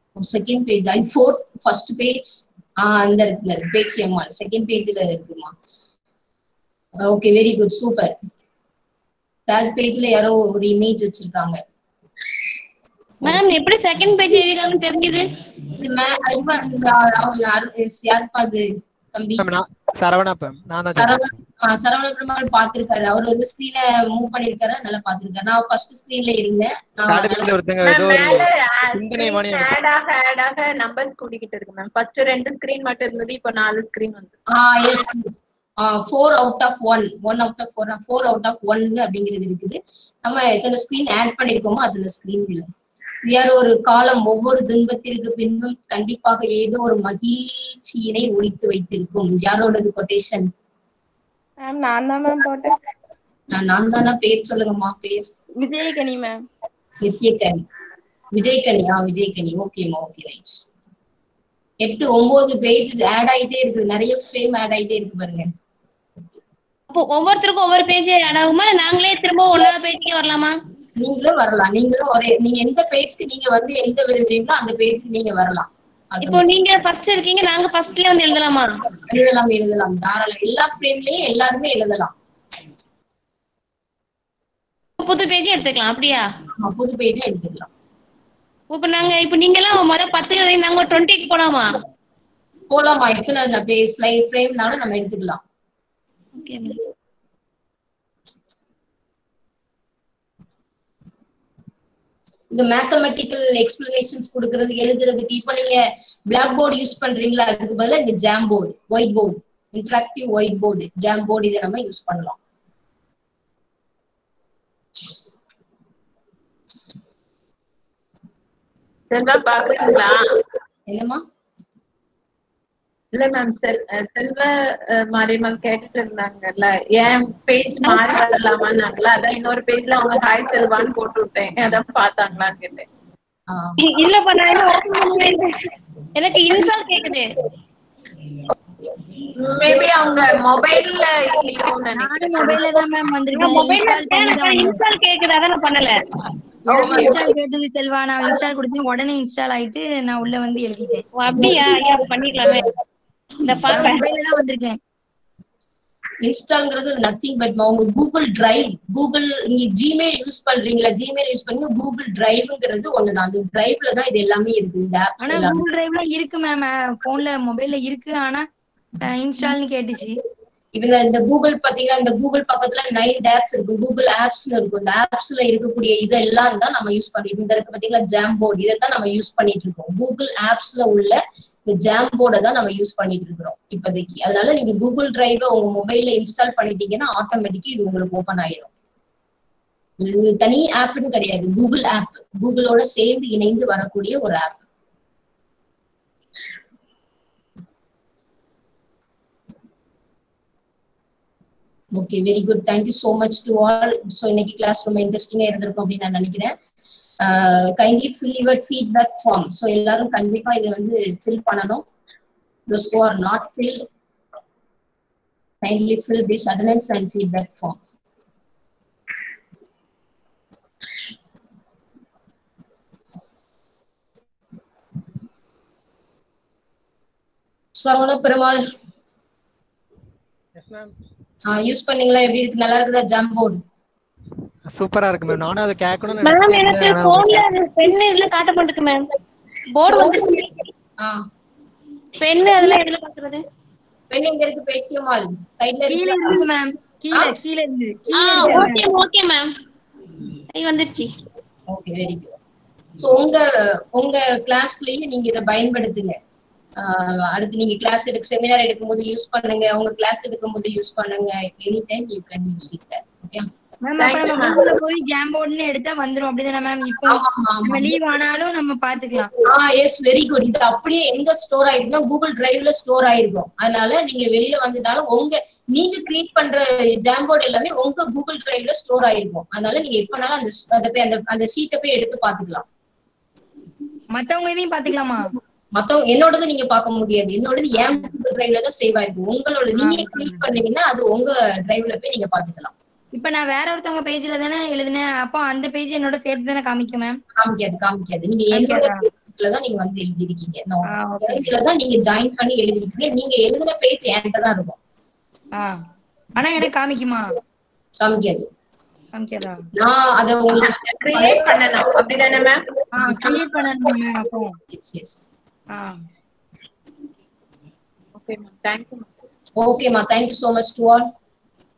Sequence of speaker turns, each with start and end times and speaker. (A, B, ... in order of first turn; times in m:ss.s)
0:00.2-0:05.5 A
0:07.1-0:08.1 A
0:09.5-0:11.6 A
0:13.2-0:15.3 B
0:15.8-0:19.4 A
0:19.4-0:21.2 C
0:21.0-0:27.5 A
0:27.1-0:29.7 C
0:27.8-0:34.4 D
0:34.5-0:42.6 A
0:43.3-0:50.5 A
0:51.6-0:52.8 E
0:53.5-0:55.3 A
0:55.6-0:56.4 E
0:57.0-0:57.6 A
0:58.3-1:00.6 A
1:01.8-1:05.5 A
1:06.9-1:10.6 B
1:11.0-1:16.4 A
1:16.2-1:18.7 B
1:19.1-1:22.1 A
1:25.0-1:26.2 B
1:26.6-1:27.7 A
1:28.7-1:31.7 B
1:32.7-1:35.4 A
1:36.4-1:36.8 B
1:42.5-1:52.4 A
1:59.1-2:00.2 D
2:00.9-2:01.2 A
2:03.1-2:12.8 D
2:13.5-2:13.8 A
2:13.8-2:15.6 B
2:16.2-2:17.3 B
2:19.4-2:22.7 D
2:22.0-2:24.8 F
2:23.3-2:26.0 B
2:26.7-2:27.2 A
2:26.7-2:31.0 F
2:31.1-2:32.7 B
2:33.4-2:34.1 B
2:33.5-2:34.8 F
2:36.2-2:45.6 A
2:45.2-2:48.5 F
2:49.1-2:50.2 F
2:50.8-3:08.7 A
3:10.0-3:14.6 A
3:22.0-3:26.5 A
3:27.2-3:31.8 A
3:32.7-3:33.8 A
3:35.6-3:37.8 A
3:47.8-3:48.6 A
3:50.6-3:50.9 C
3:51.5-3:53.6 A
3:54.7-3:57.3 C
3:56.2-3:59.1 B
3:59.7-4:00.7 B
4:02.2-4:03.4 B
4:04.1-4:06.5 A
4:05.9-4:08.8 F
4:08.1-4:09.5 B
4:08.4-4:08.7 A
4:10.5-4:11.1 B
4:11.7-4:12.4 A
4:13.0-4:16.2 A
4:16.8-4:23.5 A
4:23.8-4:29.3 F
4:24.0-4:24.7 D
4:27.1-4:27.9 A
4:29.5-4:42.7 A
4:44.1-4:45.3 F
4:45.8-4:52.7 A
4:49.8-4:50.4 F
4:53.1-4:57.2 F
4:57.4-5:04.8 A
4:58.5-4:59.0 F
5:01.0-5:01.5 F
5:06.4-5:07.4 F
5:08.0-5:08.4 A
5:09.2-5:09.6 F
5:09.8-5:11.4 A
5:10.6-5:12.6 D
5:13.0-5:14.6 F
5:13.1-5:13.4 A
5:14.7-5:15.2 A
5:15.7-5:16.0 F
5:18.2-5:19.1 D
5:19.6-5:21.1 A